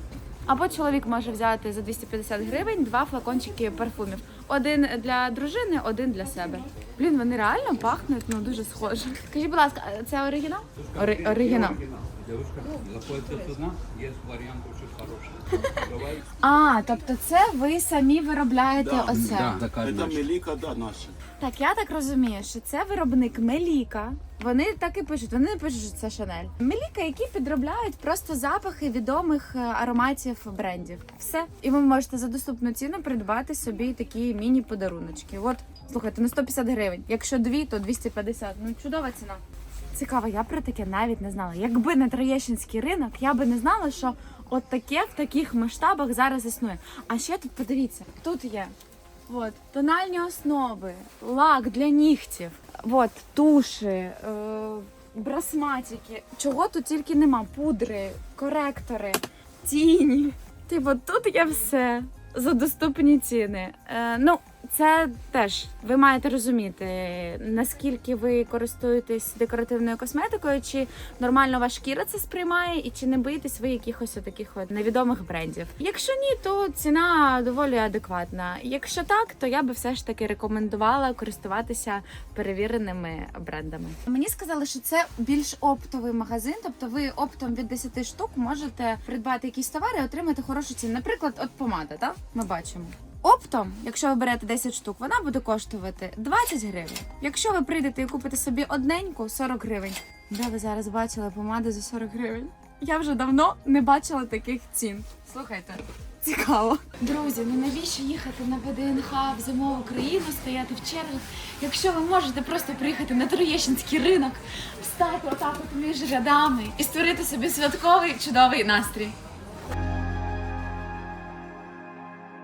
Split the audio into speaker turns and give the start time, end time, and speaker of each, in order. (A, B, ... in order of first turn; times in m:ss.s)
0:00.4-0:11.8 A
0:10.8-0:16.2 B
0:16.4-0:19.6 A
0:18.8-0:21.2 C
0:19.3-0:20.2 B
0:21.4-0:39.4 A
0:39.9-0:48.7 A
0:49.3-1:59.2 A